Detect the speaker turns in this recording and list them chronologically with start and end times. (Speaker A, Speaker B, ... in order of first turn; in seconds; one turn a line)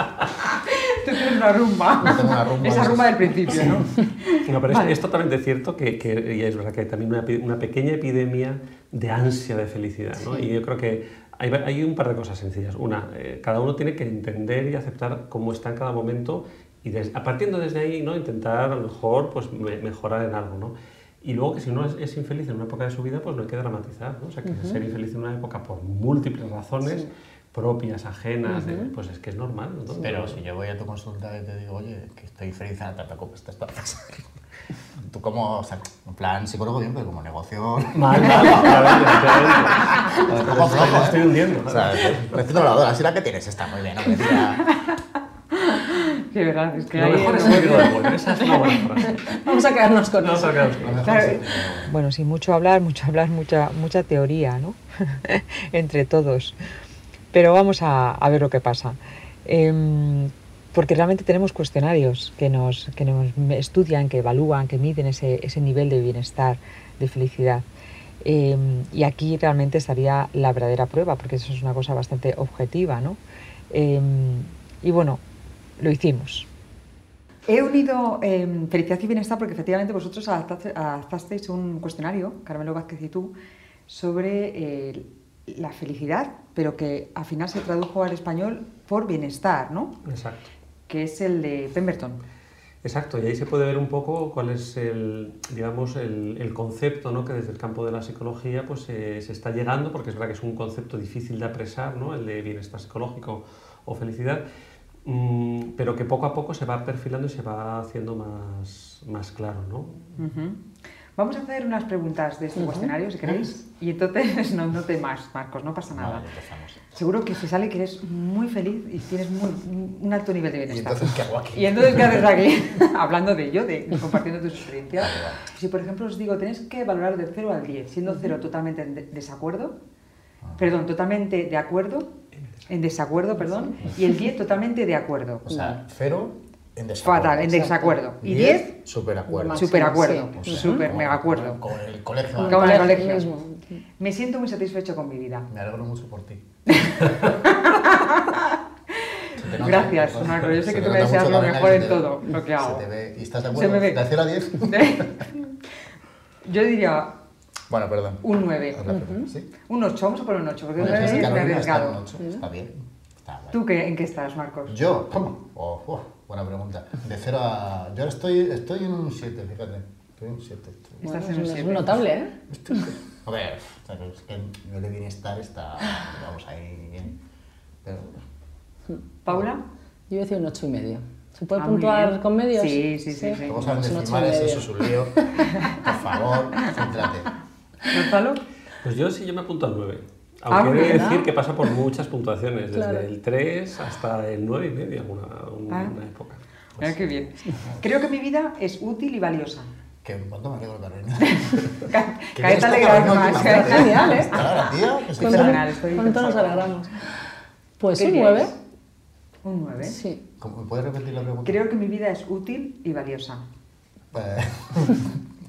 Speaker A: 0.7-4.9
Speaker B: 2.0-3.8
Speaker C: 4.5-30.4
Speaker D: 24.4-24.8
Speaker D: 28.5-28.9
Speaker B: 30.0-34.3
Speaker B: 35.0-44.6
Speaker C: 37.9-42.3
Speaker A: 45.5-48.8
Speaker C: 46.9-49.2
Speaker D: 47.4-47.8
Speaker D: 49.1-51.0
Speaker C: 50.2-51.2
Speaker B: 50.8-51.9
Speaker A: 51.0-51.5
Speaker E: 51.9-56.6
Speaker E: 57.3-67.7
Speaker E: 68.2-75.2
Speaker E: 75.8-76.5
Speaker A: 77.5-83.3
Speaker A: 83.9-89.9
Speaker C: 90.0-90.5
Speaker A: 90.9-92.2
Speaker C: 92.8-104.4
Speaker C: 105.0-110.2
Speaker A: 110.2-110.6
Speaker A: 111.2-116.2
Speaker D: 112.6-112.9
Speaker B: 115.9-116.8
Speaker A: 116.9-129.7
Speaker B: 120.7-122.2
Speaker B: 125.0-125.4
Speaker A: 130.6-132.1
Speaker A: 132.7-135.5
Speaker B: 135.5-139.6
Speaker D: 135.5-135.8
Speaker A: 137.0-138.8
Speaker D: 139.3-140.8
Speaker A: 139.5-141.6
Speaker B: 140.3-143.0
Speaker D: 142.3-143.8
Speaker A: 142.5-143.3
Speaker A: 144.0-145.5
Speaker B: 145.5-146.4
Speaker A: 146.7-152.8
Speaker B: 149.4-154.9
Speaker A: 153.5-154.0
Speaker A: 154.6-155.5
Speaker A: 156.4-157.1
Speaker B: 157.7-158.2
Speaker A: 158.2-158.8
Speaker B: 158.7-159.5
Speaker D: 158.9-159.2
Speaker A: 159.7-162.0
Speaker B: 160.8-163.6
Speaker D: 160.9-161.3
Speaker A: 163.5-164.7
Speaker B: 164.7-171.0
Speaker D: 171.0-172.9
Speaker A: 171.0-172.0
Speaker B: 172.5-177.2
Speaker B: 177.8-178.2
Speaker A: 179.2-179.6
Speaker D: 180.1-185.2
Speaker A: 181.6-183.8
Speaker B: 183.4-185.2
Speaker B: 185.8-187.3
Speaker A: 187.9-188.4
Speaker C: 188.8-196.4
Speaker A: 190.5-191.1
Speaker D: 190.8-191.3
Speaker D: 192.7-193.1
Speaker A: 195.7-195.9
Speaker B: 196.8-197.8
Speaker A: 196.8-199.7
Speaker B: 200.0-201.4
Speaker A: 201.4-206.8
Speaker B: 202.3-205.6
Speaker D: 203.3-204.5
Speaker D: 205.2-206.9
Speaker D: 207.8-208.5
Speaker A: 207.9-208.5
Speaker A: 209.4-210.0
Speaker D: 209.8-210.2
Speaker B: 210.4-211.6
Speaker A: 211.4-213.4
Speaker B: 214.1-215.2